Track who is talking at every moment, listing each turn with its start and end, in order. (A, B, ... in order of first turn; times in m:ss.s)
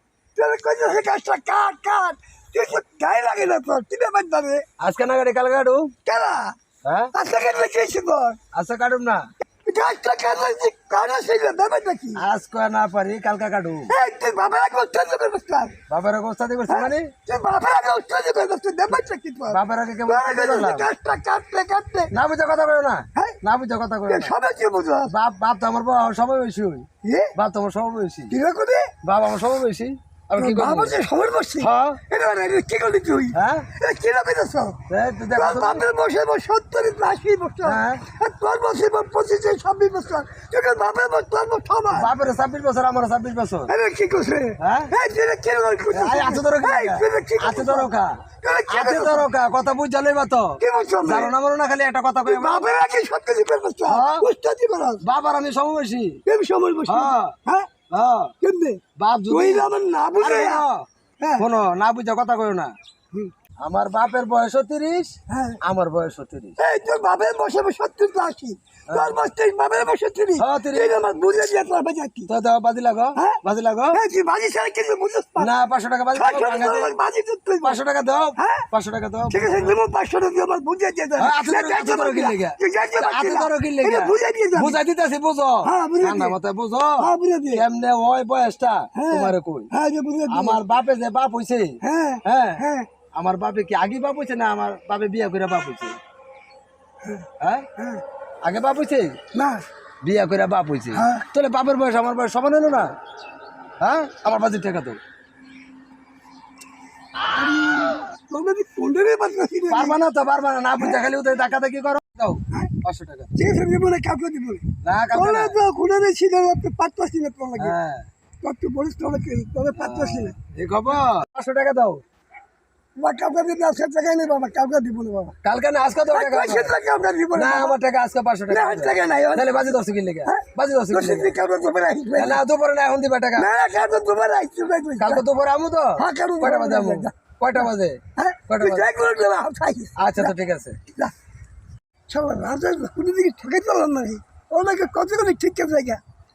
0:00.3-0:04.6 A
0:04.8-0:05.9 B
0:06.0-0:06.5 A
0:06.8-0:07.1 B
0:07.1-0:08.4 A
0:08.5-0:09.2 B
0:09.6-0:12.2 A
0:12.2-0:13.9 B
0:13.9-0:15.8 A
0:15.9-0:17.1 B
0:16.7-0:22.1 A
0:19.5-0:20.9 B
0:22.1-0:24.3 B
0:24.0-0:25.1 A
0:25.1-0:28.3 B
0:27.0-0:27.3 A
0:28.3-0:28.9 A
0:29.0-0:31.0 B
0:30.4-0:34.8 A
0:31.6-0:32.0 B
0:33.3-0:33.7 B
0:34.9-0:35.8 B
0:35.3-0:42.1 A
0:37.6-0:38.0 B
0:41.9-0:43.7 B
0:43.7-0:49.3 A
0:44.6-0:44.9 B
0:45.9-0:48.2 B
0:48.7-0:52.7 B
0:50.6-0:51.3 A
0:52.2-0:55.0 A
0:53.9-0:54.2 B
0:55.0-0:56.2 B
0:56.2-0:57.7 A
0:56.9-0:57.4 B
0:57.9-0:58.3 B
0:58.4-1:00.6 A
0:59.0-1:00.8 B
1:01.2-1:01.4 A
1:01.4-1:02.7 B
1:03.6-1:06.6 B
1:05.3-1:05.6 A
1:06.6-1:12.3 A
1:08.9-1:09.2 B
1:10.4-1:11.0 B
1:12.3-1:14.0 B
1:13.1-1:13.4 A
1:13.9-1:15.5 A
1:15.4-1:16.9 B
1:16.1-1:17.8 A
1:17.6-1:19.7 B
1:18.4-1:18.7 A
1:19.3-1:24.8 A
1:21.2-1:29.7 B
1:25.6-1:26.4 A
1:27.0-1:27.6 A
1:28.9-1:30.6 A
1:30.3-1:32.6 B
1:31.8-1:32.9 A
1:33.1-1:36.0 B
1:37.4-1:37.6 B
1:37.8-1:38.0 A
1:38.4-1:39.2 B
1:39.3-1:39.6 A
1:40.0-1:42.9 B
1:40.9-1:41.2 A
1:43.8-1:45.0 B
1:47.3-1:50.0 A
1:49.7-1:53.3 B
1:53.3-1:57.7 A
1:54.8-1:55.6 B
1:57.6-1:58.1 B
1:58.4-2:00.3 A
1:59.8-2:02.0 B
2:03.0-2:05.3 A
2:05.4-2:06.7 B
2:06.1-2:07.8 A
2:07.3-2:11.4 B
2:08.5-2:09.6 A
2:10.2-2:12.4 A
2:12.2-2:13.5 B
2:13.4-2:15.2 A
2:15.0-2:18.9 B
2:16.0-2:20.3 A
2:20.0-2:20.8 B
2:20.9-2:21.1 A
2:22.1-2:26.0 A